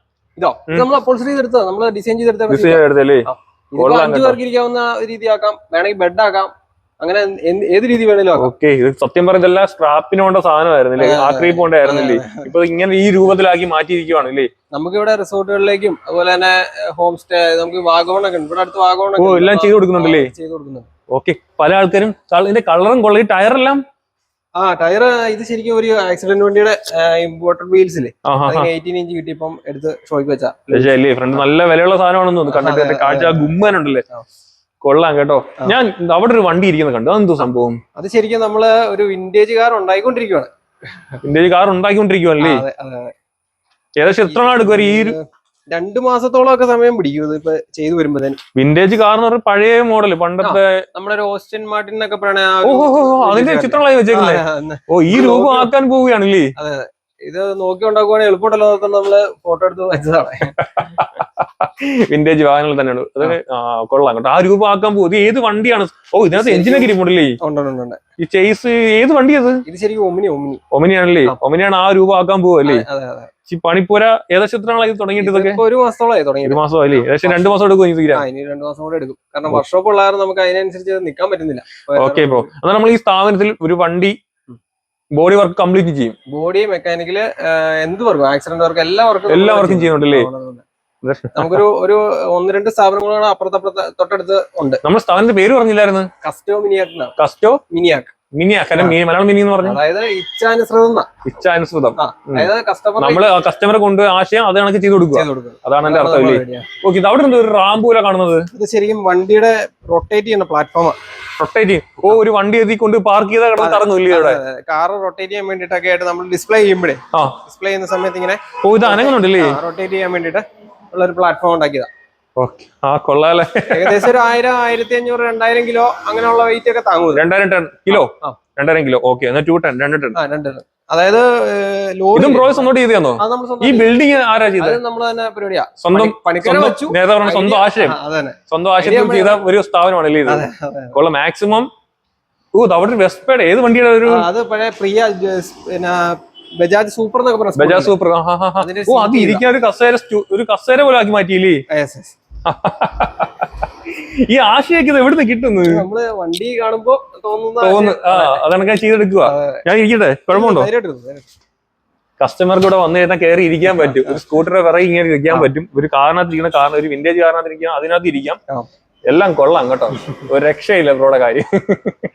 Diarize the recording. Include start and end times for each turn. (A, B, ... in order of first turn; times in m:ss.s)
0:00.4-0:08.5 A
0:02.5-0:04.4 B
0:08.4-0:14.5 B
0:11.0-0:12.5 A
0:14.7-0:20.9 A
0:19.2-0:20.3 B
0:21.1-0:23.8 B
0:24.6-0:31.4 A
0:28.2-0:28.7 B
0:30.7-0:34.0 B
0:32.5-0:33.6 A
0:34.8-0:37.8 B
0:38.0-0:40.5 A
0:41.2-0:42.6 B
0:42.4-0:43.1 A
0:44.0-0:45.2 B
0:44.3-0:48.4 A
0:48.6-0:50.8 B
0:50.4-0:55.7 A
0:52.6-0:56.5 B
0:56.6-1:00.6 A
1:00.6-1:07.4 B
1:06.3-1:08.0 A
1:08.2-1:09.6 B
1:09.6-1:10.6 A
1:10.7-1:12.8 B
1:12.6-1:13.3 A
1:13.5-1:15.6 B
1:15.2-1:17.5 A
1:16.4-1:18.2 B
1:18.1-1:22.5 A
1:22.0-1:24.2 B
1:25.2-1:26.1 B
1:26.3-1:30.6 A
1:29.3-1:30.3 B
1:31.0-1:31.6 B
1:31.3-1:34.8 A
1:34.8-1:36.1 B
1:36.2-1:37.1 A
1:37.2-1:37.6 B
1:37.7-1:38.1 A
1:38.4-1:39.8 B
1:39.6-1:41.1 A
1:41.3-1:48.5 B
1:42.0-1:43.3 A
1:45.1-1:46.7 A
1:48.5-1:51.0 A
1:51.4-1:54.4 B
1:53.6-2:01.9 A
1:57.1-1:57.4 B
1:58.6-1:59.6 B
2:02.4-2:04.1 B
2:03.7-2:07.2 A
2:07.1-2:10.2 B
2:07.9-2:08.4 A
2:10.1-2:13.9 A
2:12.1-2:14.8 B
2:14.6-2:19.4 A
2:15.8-2:18.0 B
2:18.5-2:21.7 B
2:20.2-2:21.0 A
2:22.5-2:24.3 B
2:24.0-2:28.0 A
2:27.6-2:31.6 B
2:28.6-2:29.4 A
2:31.7-2:32.2 A
2:32.4-2:35.8 B
2:35.6-2:38.4 A
2:37.6-2:40.7 B
2:39.2-2:39.6 A
2:40.3-2:41.3 A
2:42.2-2:48.4 B
2:43.6-2:44.2 A
2:49.1-2:52.0 B